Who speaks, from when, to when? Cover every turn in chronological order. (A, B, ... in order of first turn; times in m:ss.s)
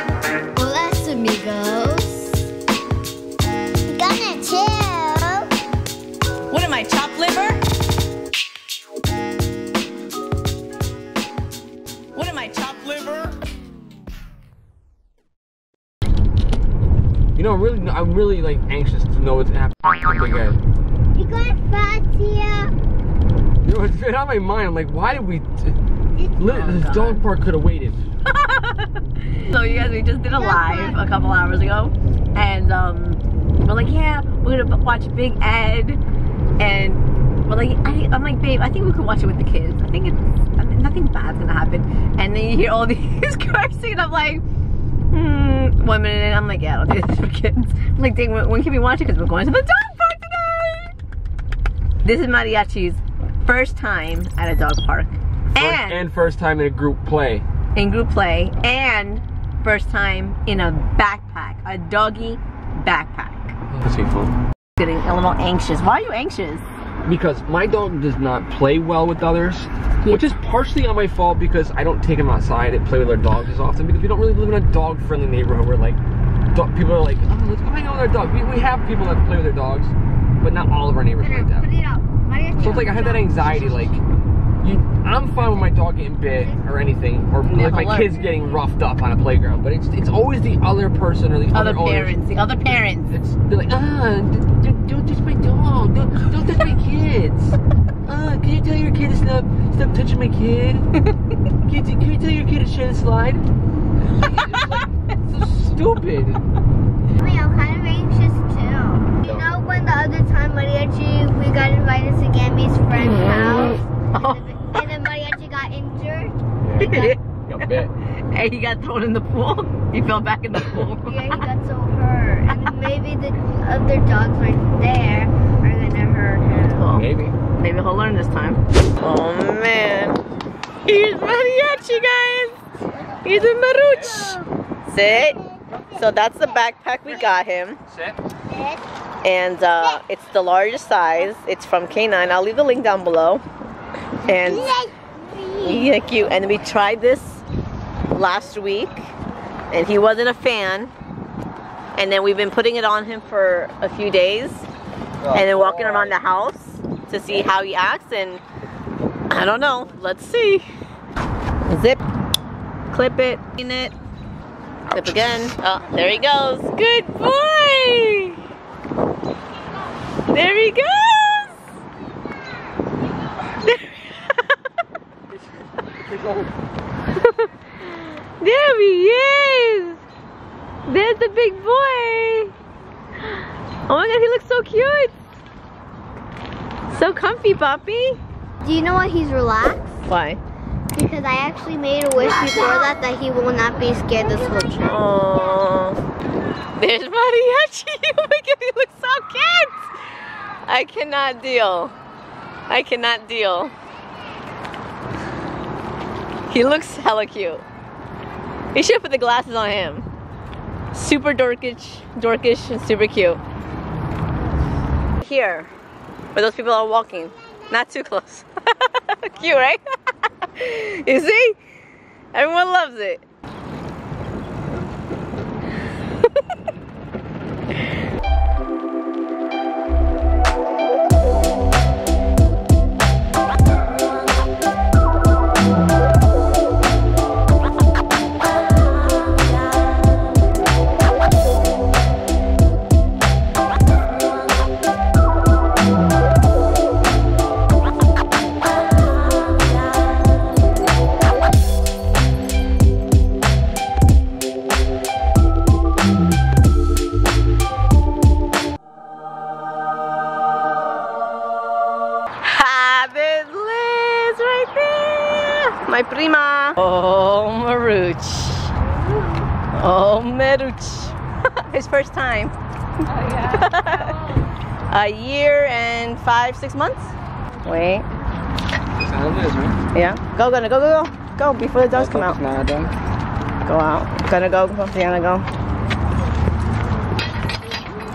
0:00.5-0:02.4 A
0:03.9-0:05.5 A
0:06.5-0:07.6 B
0:12.1-0:13.3 B
0:17.4-0:20.6 C
0:21.1-0:22.7 A
0:23.6-0:25.8 C
0:26.4-0:28.0 C
0:26.4-0:27.2 B
0:28.3-0:36.0 B
0:30.4-0:31.0 A
0:36.6-0:44.4 B
0:45.1-0:50.9 B
0:52.0-0:56.0 B
0:55.5-0:57.5 C
0:57.8-1:03.5 B
1:03.7-1:04.3 C
1:04.8-1:06.6 B
1:07.0-1:16.0 C
1:16.5-1:21.7 C
1:21.2-1:23.9 A
1:22.6-1:24.0 C
1:24.6-1:32.2 C
1:26.3-1:26.7 A
1:27.4-1:28.2 B
1:31.5-1:33.2 B
1:33.1-1:40.9 C
1:41.6-1:43.4 C
1:44.0-1:46.4 C
1:44.2-1:44.7 B
1:47.2-1:56.4 A
1:53.0-1:54.4 B
1:56.6-1:57.9 C
1:56.8-2:01.4 B
2:01.0-2:06.9 A
2:06.8-2:10.2 B
2:06.9-2:07.3 C
2:10.8-2:12.6 B
2:13.2-2:15.4 B
2:15.9-2:17.8 B
2:18.5-2:18.8 A
2:19.2-2:23.4 B
2:24.2-2:24.7 B
2:24.3-2:25.9 A
2:25.6-2:27.4 B
2:28.1-2:29.1 B
2:29.7-2:30.9 B
2:32.0-2:34.7 B
2:35.3-2:36.1 C
2:35.3-2:38.4 B
2:39.3-2:40.6 B
2:41.7-2:42.0 B
2:42.9-2:43.9 B
2:44.9-2:48.4 B
2:50.3-2:51.6 B
2:53.6-2:54.6 B
2:56.1-2:56.4 C
2:57.2-3:00.0 B
3:00.9-3:02.5 B
3:03.3-3:05.2 B
3:06.9-3:08.2 B
3:08.6-3:10.0 A
3:10.1-3:10.4 B
3:10.9-3:15.0 A
3:12.2-3:12.9 B
3:14.8-3:16.0 B
3:16.8-3:19.9 B
3:20.6-3:21.9 B
3:22.7-3:23.7 B
3:26.5-3:27.6 B
3:28.7-3:30.1 B
3:30.9-3:33.4 B
3:35.2-3:35.7 B
3:36.3-3:39.8 B
3:40.6-3:41.6 B
3:42.3-3:43.2 B
4:22.4-4:28.7 B
4:29.7-4:32.5 B
4:33.3-4:34.2 B
4:34.9-4:38.1 B
4:39.0-4:39.8 C
4:39.9-4:42.4 B
4:41.9-4:42.9 C
4:43.6-4:45.4 B